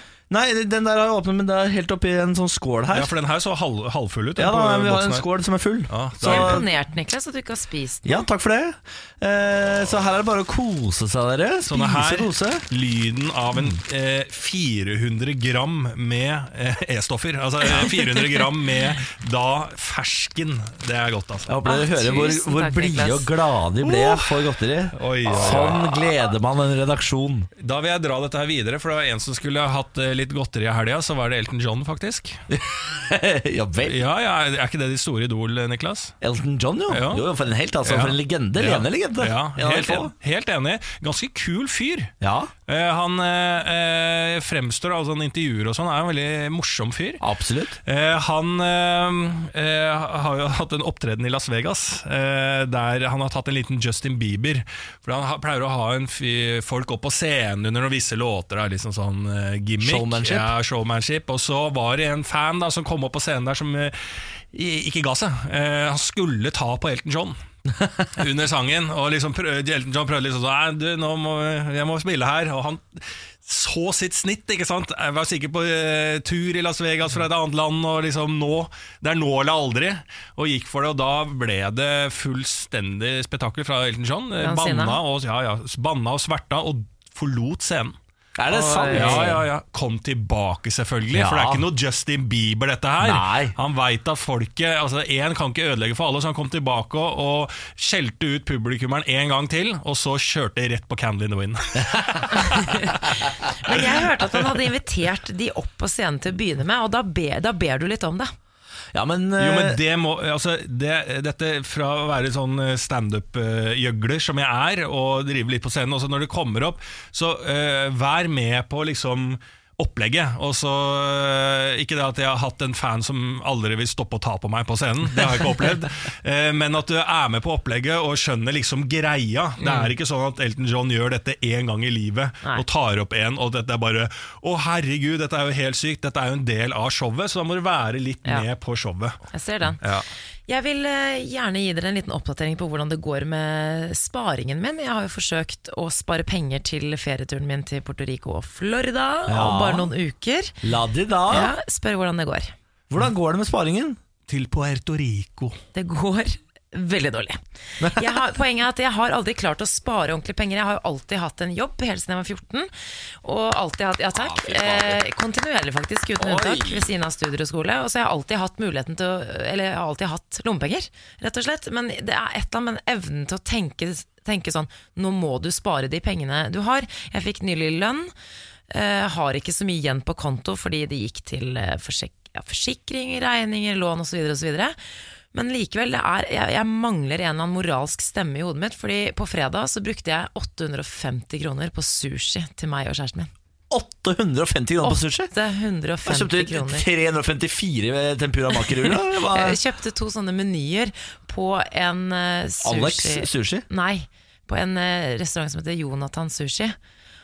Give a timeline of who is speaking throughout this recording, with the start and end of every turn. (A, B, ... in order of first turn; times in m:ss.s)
0:00.3-0:03.1 A
0:02.9-0:05.3 B
0:04.4-0:06.6 A
0:05.9-0:06.7 B
0:06.2-0:08.2 C
0:08.0-0:12.7 A
0:11.6-0:21.5 B
0:21.5-0:27.5 A
0:21.6-0:23.3 C
0:23.8-0:24.3 B
0:24.9-0:26.0 B
0:27.6-0:32.4 B
0:32.5-0:34.0 A
0:33.8-0:36.2 B
0:36.2-0:40.1 A
0:36.9-0:37.2 B
0:37.8-0:42.1 B
0:42.2-0:42.5 A
0:42.7-0:47.2 B
0:47.2-0:47.8 A
0:47.8-1:04.0 B
0:59.8-1:00.5 A
1:04.5-1:07.4 B
1:08.1-1:28.0 B
1:24.4-1:25.0 C
1:28.4-1:29.4 A
1:28.5-1:29.4 C
1:28.9-1:42.9 B
1:31.1-1:31.6 A
1:33.0-1:33.6 A
1:41.8-1:42.3 A
1:42.4-1:48.3 C
1:48.9-1:49.8 A
1:49.4-2:19.2 B
2:09.6-2:09.9 C
2:19.3-2:19.8 C
2:19.8-2:20.1 B
2:20.5-2:30.6 C
2:29.3-2:29.9 A
2:30.6-2:31.5 A
2:31.3-2:32.5 C
2:32.9-2:34.0 A
2:34.3-2:35.6 B
2:35.8-2:37.4 C
2:37.8-2:38.2 A
2:37.9-2:42.7 C
2:43.2-2:58.1 C
2:44.2-2:45.0 A
2:46.2-2:46.9 A
2:58.7-3:04.8 C
3:05.3-3:13.3 C
3:13.7-3:15.3 A
3:14.8-3:16.9 C
3:16.0-3:19.6 A
3:18.9-3:26.8 C
3:22.6-3:23.7 A